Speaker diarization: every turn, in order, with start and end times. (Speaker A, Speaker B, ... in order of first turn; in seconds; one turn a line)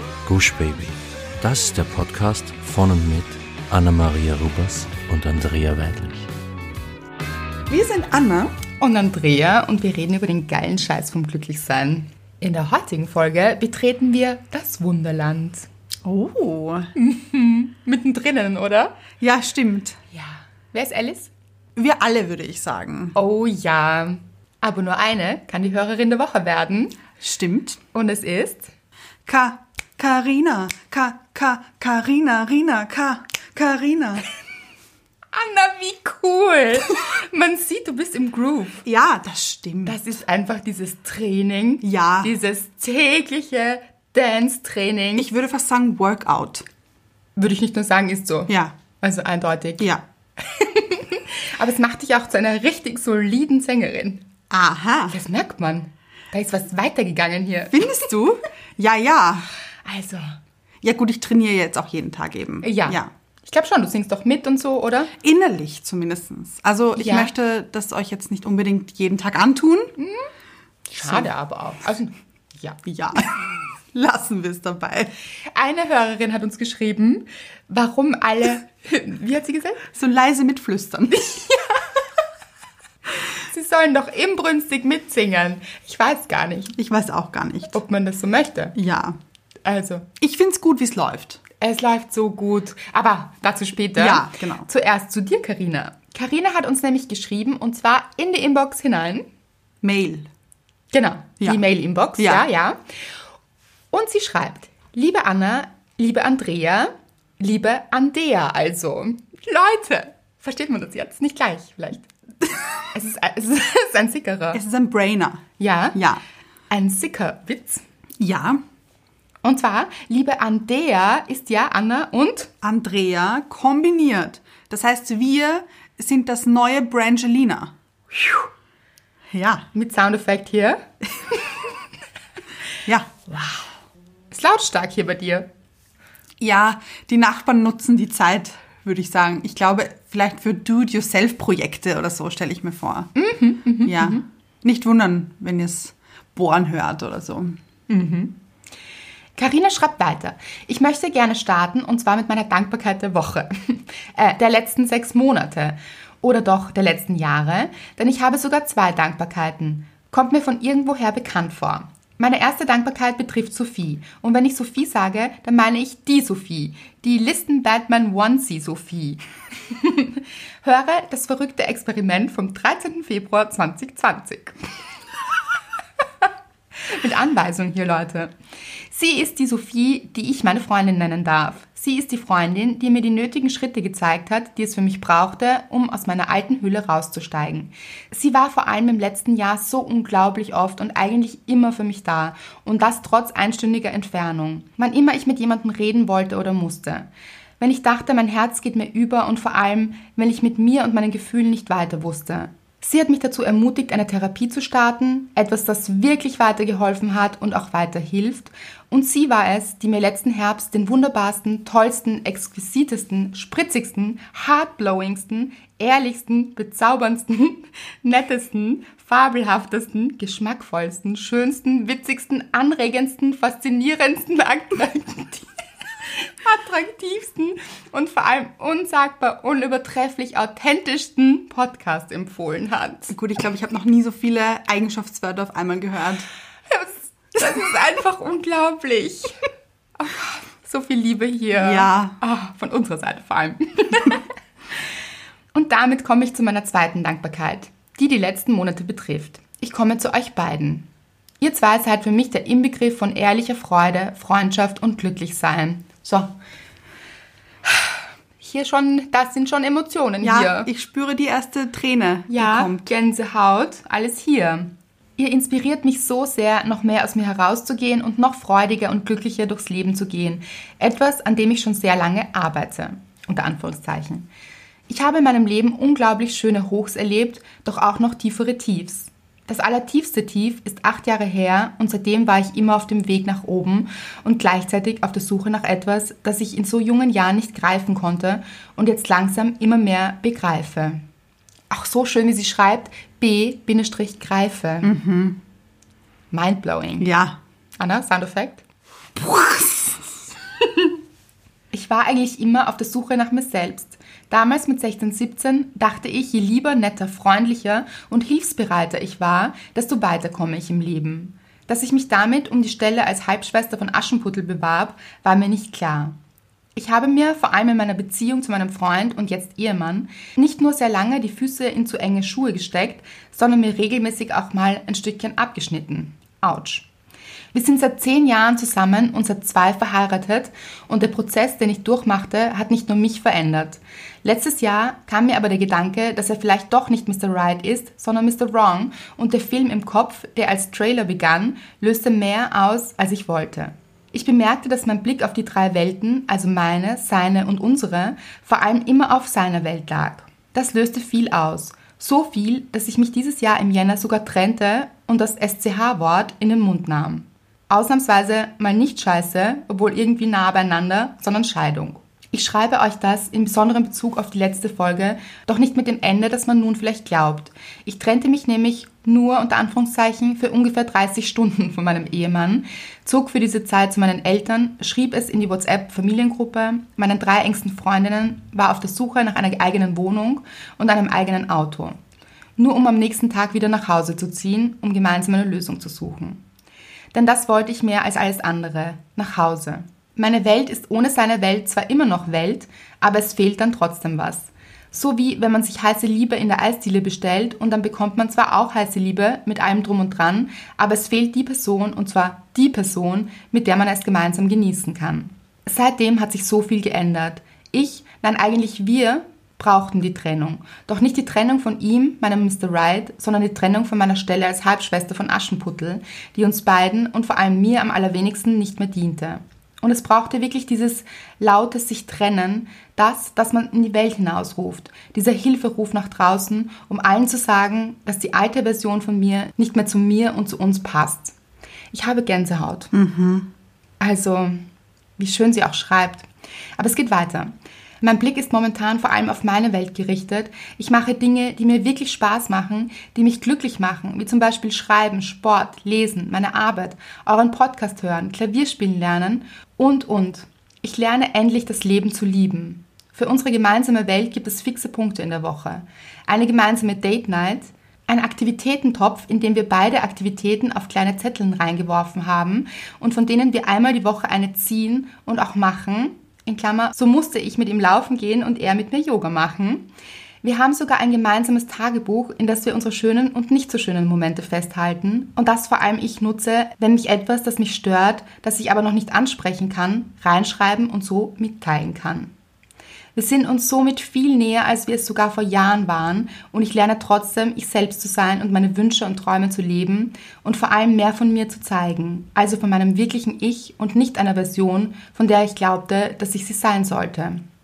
Speaker A: 0.2-6.3
Speaker B: 7.7-8.6
Speaker C: 8.8-15.7
Speaker B: 16.0-16.9
Speaker C: 16.9-19.0
Speaker B: 19.2-20.0
Speaker C: 20.1-21.3
Speaker B: 21.8-23.1
Speaker C: 23.1-27.0
Speaker B: 27.2-27.8
Speaker C: 27.9-28.7
Speaker B: 29.2-34.3
Speaker C: 35.3-38.8
Speaker B: 38.8-40.0
Speaker C: 39.9-45.3
Speaker B: 41.8-42.3
Speaker B: 45.2-46.6
Speaker C: 47.4-54.2
Speaker B: 48.5-48.7
Speaker B: 54.5-55.1
Speaker C: 55.1-57.9
Speaker B: 57.7-59.5
Speaker C: 59.8-60.2
Speaker B: 60.8-63.1
Speaker C: 62.6-65.1
Speaker B: 65.2-69.9
Speaker C: 67.0-67.3
Speaker C: 70.0-70.3
Speaker C: 70.9-72.9
Speaker B: 72.8-73.3
Speaker B: 73.9-75.1
Speaker C: 75.5-79.8
Speaker B: 79.9-81.4
Speaker C: 81.1-82.0
Speaker C: 83.4-86.7
Speaker B: 86.7-87.8
Speaker C: 87.7-88.7
Speaker B: 88.7-89.2
Speaker C: 89.6-90.1
Speaker B: 90.2-91.4
Speaker C: 91.6-99.3
Speaker B: 94.0-94.7
Speaker B: 99.8-100.3
Speaker C: 100.9-102.8
Speaker B: 102.2-102.5
Speaker C: 103.9-112.1
Speaker C: 112.9-114.6
Speaker B: 114.5-116.2
Speaker C: 115.6-116.0
Speaker C: 116.7-117.8
Speaker B: 118.2-118.6
Speaker C: 119.4-122.5
Speaker B: 122.6-127.7
Speaker B: 129.3-129.7
Speaker C: 129.7-130.8
Speaker B: 132.8-133.1
Speaker C: 134.3-135.5
Speaker B: 136.4-143.1
Speaker C: 143.2-144.2
Speaker B: 143.8-147.6
Speaker C: 147.9-148.4
Speaker C: 149.4-174.6
Speaker C: 176.9-178.3
Speaker C: 178.9-197.1
Speaker C: 197.6-225.5
Speaker C: 226.1-233.1
Speaker B: 233.1-236.3
Speaker C: 236.7-239.4
Speaker C: 240.0-244.2
Speaker B: 241.6-242.2
Speaker C: 245.5-250.9
Speaker C: 251.4-256.3
Speaker C: 257.7-260.7
Speaker B: 260.2-262.9
Speaker C: 262.3-274.3
Speaker C: 274.9-291.0
Speaker C: 291.7-294.9
Speaker B: 294.8-295.4
Speaker C: 296.3-297.1
Speaker B: 297.0-297.4
Speaker C: 297.8-298.6
Speaker B: 299.2-300.0
Speaker C: 301.7-316.1
Speaker C: 316.8-326.9
Speaker C: 327.5-382.0
Speaker C: 382.6-386.4
Speaker C: 387.1-431.3
Speaker C: 431.9-432.9
Speaker B: 432.9-433.5
Speaker C: 434.0-434.6
Speaker C: 435.2-469.9
Speaker C: 470.4-482.3
Speaker C: 483.1-497.4